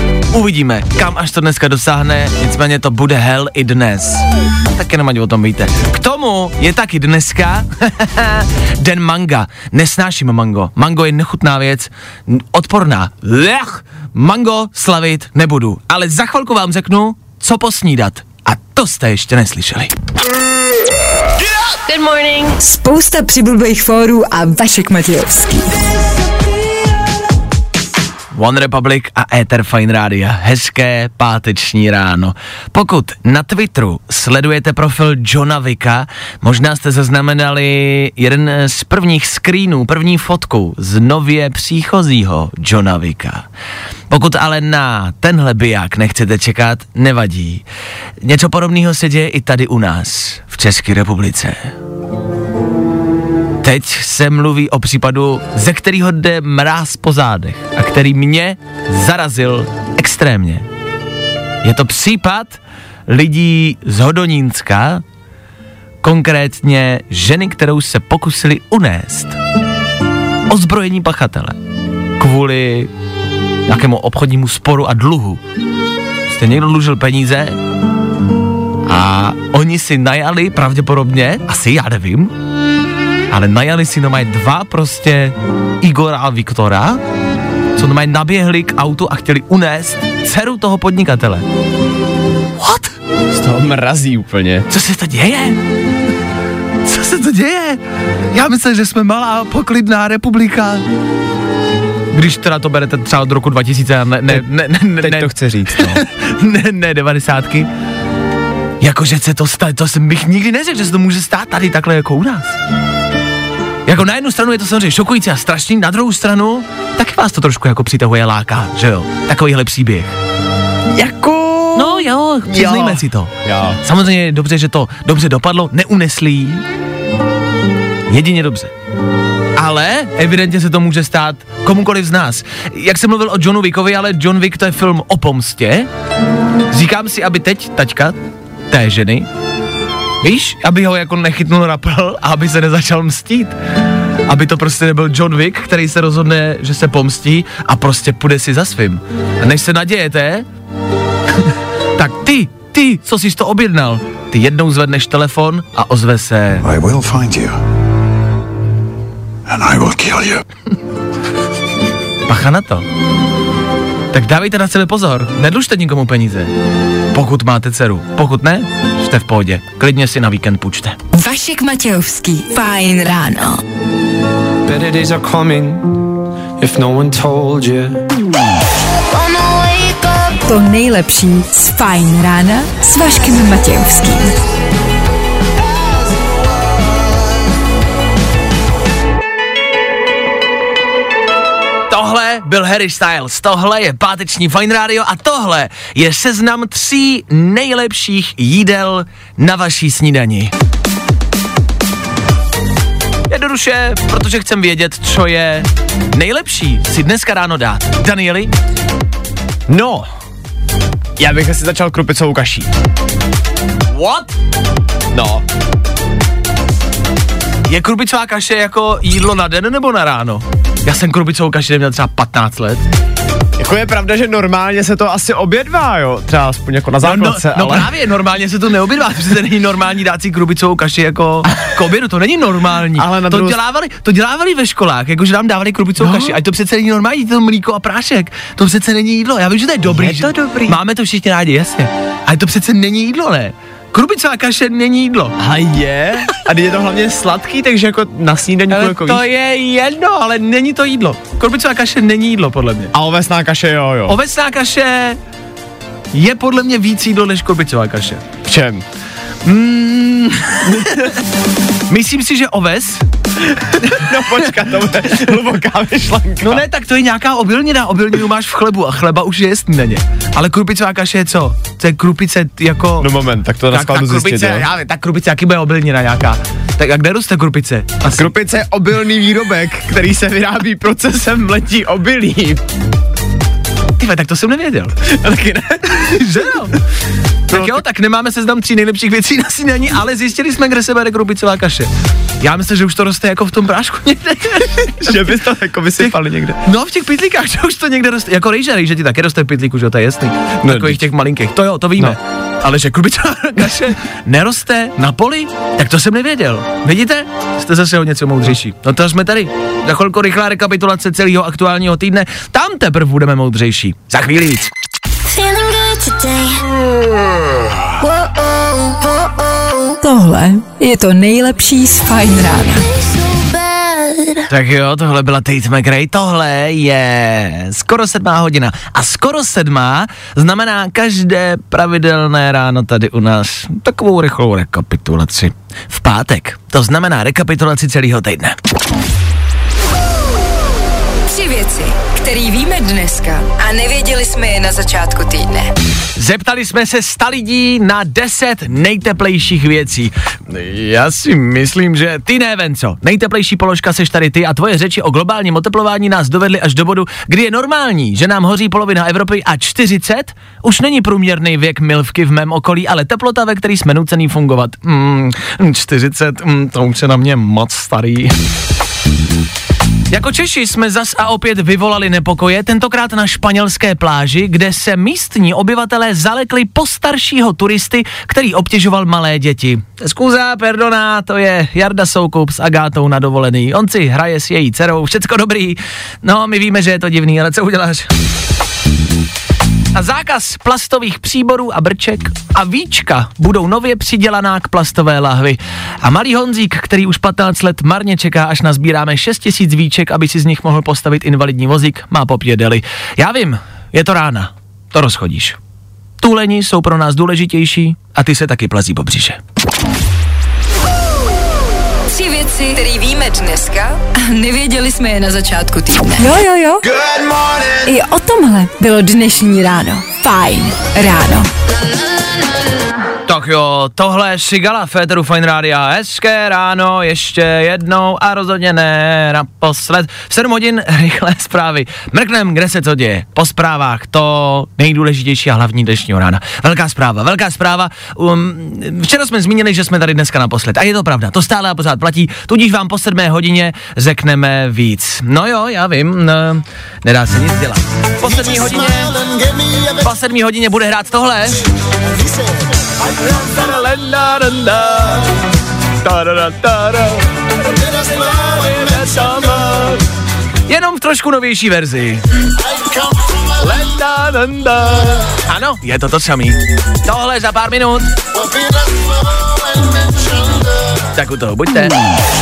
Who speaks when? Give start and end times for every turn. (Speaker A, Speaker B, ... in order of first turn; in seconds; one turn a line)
Speaker A: 0.3-19.9
Speaker B: 21.9-22.6
Speaker C: 22.6-25.7
Speaker A: 28.3-43.4
Speaker A: 44.1-47.6
Speaker A: 48.2-51.7
Speaker A: 53.6-60.6
Speaker A: 61.6-65.0
Speaker A: 66.0-69.4
Speaker A: 70.5-71.6
Speaker A: 72.2-72.9
Speaker A: 73.7-75.4
Speaker A: 76.3-77.6
Speaker A: 78.9-82.3
Speaker A: 83.3-87.0
Speaker A: 87.8-91.4
Speaker A: 92.6-92.9
Speaker D: 93.3-94.7
Speaker A: 94.7-95.6
Speaker A: 96.8-97.8
Speaker A: 98.3-100.8
Speaker A: 102.1-107.7
Speaker D: 105.0-106.0
Speaker A: 108.8-112.6
Speaker A: 113.9-120.1
Speaker D: 120.9-123.8
Speaker A: 121.8-123.3
Speaker A: 123.8-126.6
Speaker A: 128.1-128.7
Speaker A: 129.6-135.9
Speaker A: 136.7-138.2
Speaker A: 138.7-139.3
Speaker A: 140.2-143.6
Speaker A: 144.3-150.4
Speaker A: 152.0-156.6
Speaker E: 156.6-157.6
Speaker E: 159.4-160.4
Speaker A: 162.3-162.9
Speaker A: 164.1-166.5
Speaker A: 167.1-171.0
Speaker C: 171.1-173.6
Speaker F: 174.6-176.0
Speaker F: 176.6-178.0
Speaker B: 179.1-180.3
Speaker C: 180.5-184.4
Speaker A: 191.9-200.5
Speaker A: 203.3-208.5
Speaker D: 209.7-210.1
Speaker D: 211.2-212.7
Speaker A: 213.9-214.3
Speaker D: 215.1-215.4
Speaker A: 217.7-222.8
Speaker D: 223.6-227.9
Speaker A: 227.0-245.3
Speaker D: 232.9-233.6
Speaker D: 236.0-236.4
Speaker D: 239.9-240.8
Speaker D: 245.4-249.2
Speaker A: 248.7-252.9
Speaker D: 252.9-254.2
Speaker A: 254.1-255.2
Speaker A: 256.1-258.2
Speaker D: 258.4-258.8
Speaker A: 259.4-261.2
Speaker A: 261.9-263.0
Speaker A: 263.8-264.1
Speaker D: 263.9-266.6
Speaker A: 266.4-273.1
Speaker D: 273.0-274.7
Speaker A: 273.7-278.3
Speaker D: 278.1-282.6
Speaker A: 284.0-285.1
Speaker D: 285.1-286.0
Speaker A: 285.9-286.8
Speaker A: 287.5-291.9
Speaker D: 287.5-287.8
Speaker A: 292.4-295.4
Speaker D: 295.0-296.6
Speaker A: 296.0-314.7
Speaker D: 300.6-301.0
Speaker B: 315.2-316.6
Speaker C: 320.0-322.8
Speaker B: 323.2-324.4
Speaker A: 324.5-338.6
Speaker C: 341.3-345.7
Speaker A: 346.1-368.4
Speaker A: 370.1-388.1
Speaker A: 389.9-405.6
Speaker A: 406.2-409.4
Speaker C: 412.1-416.9
Speaker C: 417.8-421.5
Speaker A: 423.2-449.2
Speaker A: 449.9-451.6
Speaker A: 453.0-455.3
Speaker A: 456.0-457.3
Speaker A: 457.9-460.0
Speaker A: 460.7-462.2
Speaker A: 463.6-468.1
Speaker A: 471.1-472.0